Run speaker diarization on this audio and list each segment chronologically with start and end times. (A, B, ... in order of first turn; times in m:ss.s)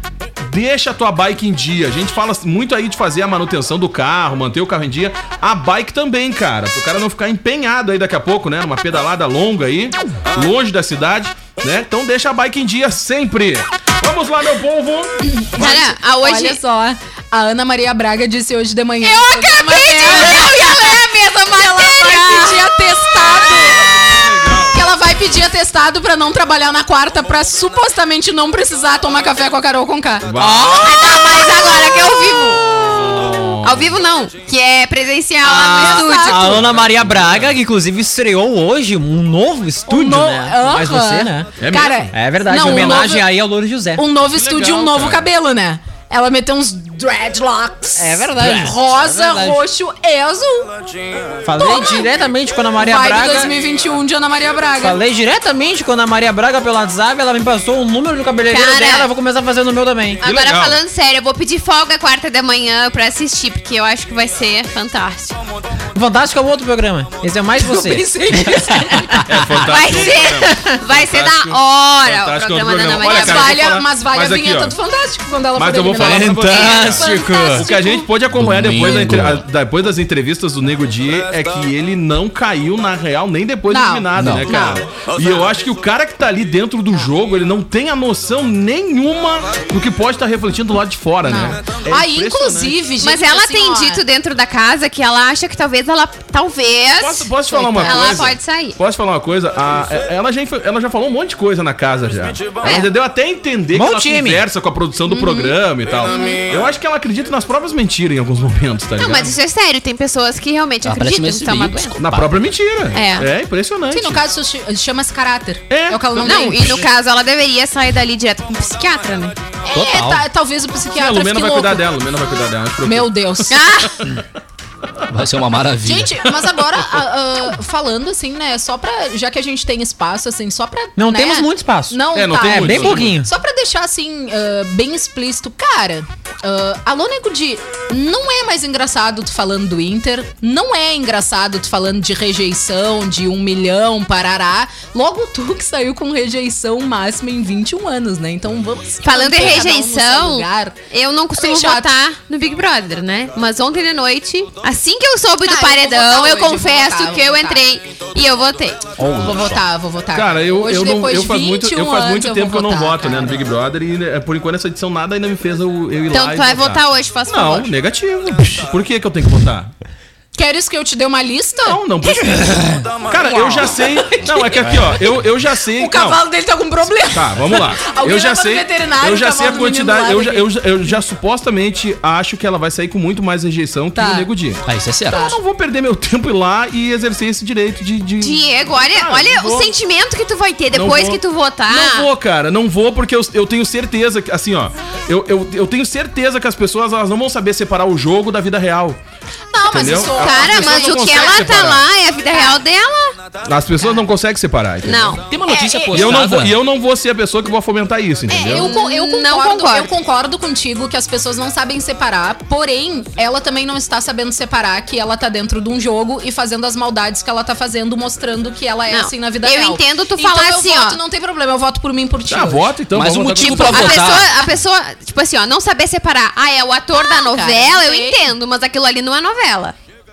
0:00.4-0:15.8 A
0:15.2-0:24.0 B
0:15.6-0:16.6 C
0:19.0-0:23.7 C
0:24.0-0:24.8 A
0:24.7-0:30.8 B
0:30.2-0:31.9 A
0:30.7-0:32.7 C
0:32.7-0:33.9 A
0:33.6-0:36.7 C
0:35.4-0:41.6 D
0:35.5-0:36.6 B
0:36.6-0:37.5 A
0:39.9-0:43.3 B
0:41.6-0:42.1 A
0:42.1-0:44.0 D
0:42.6-0:43.1 A
0:44.0-0:50.7 B
0:44.3-0:45.3 A
0:48.0-0:49.6 D
0:51.4-0:53.5 D
0:51.6-0:52.1 B
0:52.8-0:55.0 B
0:54.8-1:00.2 D
0:58.5-0:59.1 C
1:00.2-1:05.4 C
1:00.2-1:00.8 A
1:05.9-1:08.1 D
1:07.6-1:09.2 B
1:09.2-1:14.8 A
1:09.6-1:13.6 C
1:10.5-1:10.8 D
1:13.1-1:18.1 B
1:15.6-1:32.8 A
1:15.9-1:17.7 D
1:18.3-1:19.4 E
1:23.7-1:24.8 B
1:24.1-1:24.7 E
1:31.2-1:34.0 B
1:33.0-1:38.8 C
1:37.0-1:49.3 A
1:37.5-1:38.2 B
1:42.6-1:42.9 C
1:43.7-1:44.4 D
1:45.1-1:45.5 B
1:46.1-1:46.4 C
1:49.0-1:51.9 C
1:50.8-1:52.3 E
1:52.0-1:54.2 A
1:52.9-1:53.3 C
1:53.9-1:56.8 B
1:55.7-1:56.3 A
1:56.2-1:59.4 C
1:59.6-2:01.8 B
1:59.7-2:00.2 D
2:00.9-2:03.6 A
2:02.8-2:03.6 B
2:03.5-2:03.9 C
2:05.1-2:06.1 E
2:05.8-2:30.7 B
2:11.0-2:13.3 D
2:12.1-2:13.1 A
2:29.0-2:38.9 C
2:31.3-2:31.9 B
2:35.4-2:37.6 B
2:39.0-2:39.6 E
2:39.2-2:43.3 B
2:40.1-2:49.7 A
2:46.1-2:47.7 C
2:50.4-2:51.8 B
2:51.6-2:56.2 A
2:52.4-2:52.9 E
2:53.3-2:54.3 B
2:55.8-3:00.5 B
2:57.1-3:09.7 A
3:03.9-3:04.3 B
3:04.6-3:05.2 E
3:05.1-3:05.4 B
3:08.2-3:12.1 C
3:10.7-3:19.0 A
3:19.5-3:21.7 B
3:19.7-3:21.8 A
3:20.1-3:23.2 C
3:23.4-3:25.2 A
3:24.8-3:25.2 C
3:25.2-3:26.6 E
3:25.5-3:26.1 B
3:25.9-3:28.7 A
3:28.3-3:42.7 B
3:28.5-3:29.9 C
3:38.9-3:41.0 C
3:42.3-3:44.2 A
3:42.9-3:44.3 E
3:43.4-3:49.7 C
3:46.9-3:48.2 B